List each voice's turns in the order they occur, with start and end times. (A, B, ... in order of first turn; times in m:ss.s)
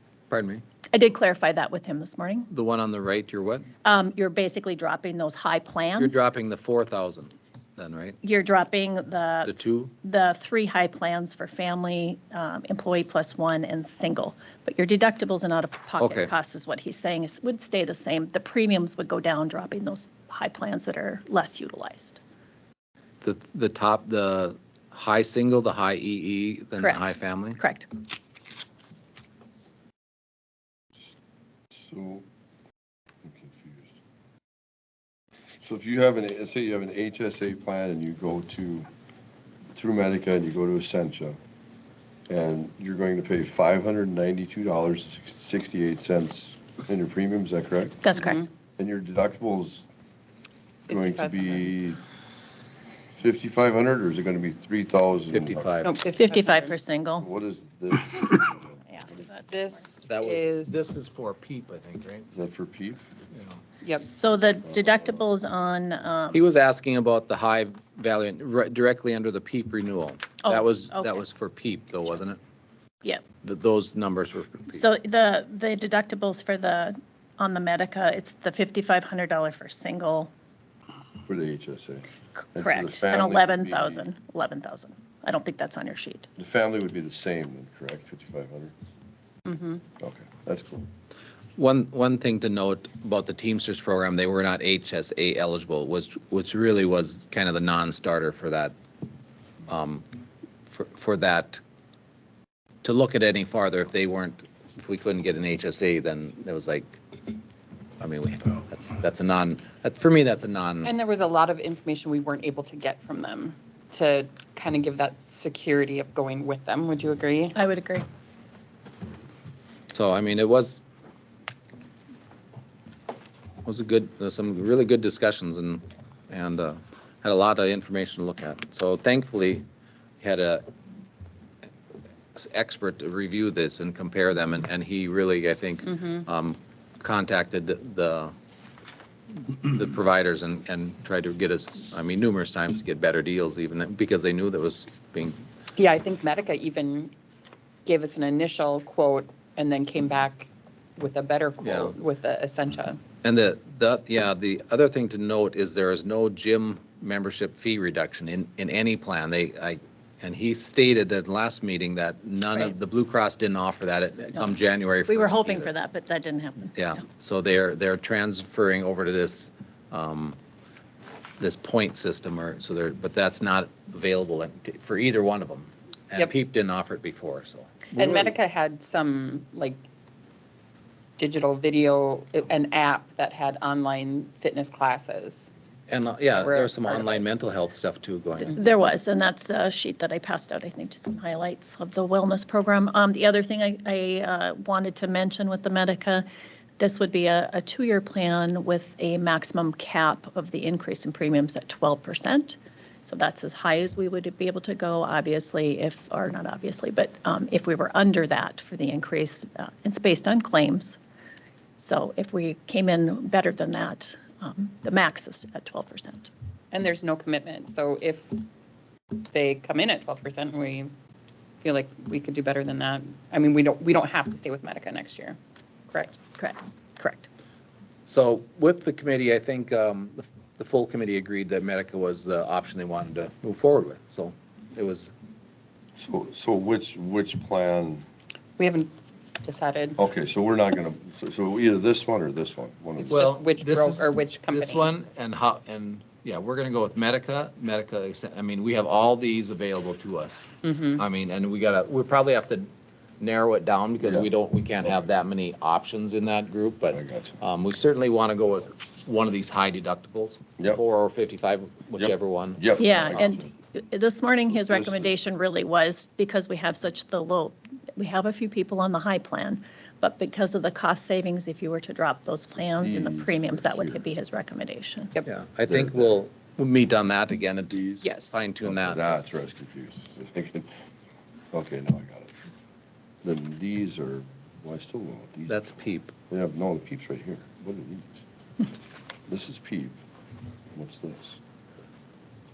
0:00.3-0:00.6 A
0:00.9-0:02.5 B
0:02.5-0:03.7 A
0:03.8-0:06.2 B
0:06.0-0:08.2 A
0:08.2-0:22.2 B
0:09.4-0:09.9 A
0:16.0-0:16.3 A
0:23.2-0:27.6 A
0:26.8-0:27.9 B
0:31.7-0:32.2 C
0:33.2-0:33.9 C
0:35.6-0:38.9 C
0:39.7-0:41.4 C
0:42.3-0:48.0 C
0:48.0-0:48.4 B
0:48.1-0:48.5 D
0:48.8-0:49.8 C
0:50.9-0:51.6 D
0:50.9-0:52.0 C
0:53.2-0:55.7 C
0:55.3-0:55.9 A
0:55.8-0:56.7 D
0:56.1-0:57.3 B
0:57.2-0:59.1 C
0:58.9-0:59.8 B
0:59.5-1:00.8 D
1:00.1-1:02.3 A
1:02.3-1:03.0 C
1:03.3-1:03.6 A
1:04.0-1:06.4 B
1:04.7-1:05.1 C
1:06.3-1:12.4 A
1:10.4-1:11.2 B
1:13.4-1:14.8 A
1:14.7-1:20.3 B
1:21.2-1:24.0 C
1:22.6-1:26.3 B
1:26.4-1:28.7 C
1:29.4-1:29.8 D
1:30.0-1:30.9 C
1:31.6-1:38.7 A
1:39.7-1:40.0 A
1:40.7-1:41.6 A
1:42.8-1:47.0 A
1:48.0-1:50.9 A
1:50.8-1:57.6 D
1:57.6-1:58.0 B
1:59.9-2:00.8 A
2:03.6-2:09.6 A
2:10.2-2:10.6 A
2:12.3-2:18.3 A
2:15.8-2:16.2 D
2:19.4-2:25.4 A
2:25.8-2:27.1 D
2:27.8-2:33.0 D
2:31.6-2:32.0 A
2:33.2-2:45.7 A
2:45.1-2:47.0 B
2:46.8-2:50.4 A
2:51.4-2:58.3 A
2:57.9-2:59.8 D
3:01.2-3:05.5 D
3:05.9-3:08.6 A
3:06.3-3:07.2 D
3:08.5-3:16.2 B
3:16.8-3:31.0 B
3:31.8-3:36.3 B
3:36.7-3:38.4 D
3:39.2-3:40.9 D
3:41.6-3:45.4 D
3:45.9-3:46.2 D
3:46.4-3:47.3 B
3:48.1-3:55.1 A
3:56.0-3:58.1 C
3:58.6-4:00.0 D
4:00.0-4:03.3 C
4:03.1-4:04.9 D
4:03.1-4:12.7 A
4:10.6-4:11.0 D
4:13.2-4:23.1 A
4:14.0-4:14.3 C
4:16.9-4:17.4 C
4:22.0-4:23.5 C
4:22.8-4:35.2 B
4:24.7-4:25.1 C
4:32.8-4:34.0 C
4:35.2-4:39.1 A
4:35.7-4:36.1 C
4:37.7-4:38.0 C
4:38.0-4:38.4 D
4:38.6-4:40.7 C
4:41.5-4:42.3 C
4:43.2-4:45.7 C
4:45.5-4:46.1 A
4:46.3-4:48.2 C
4:49.3-4:50.0 C
4:50.7-4:51.4 C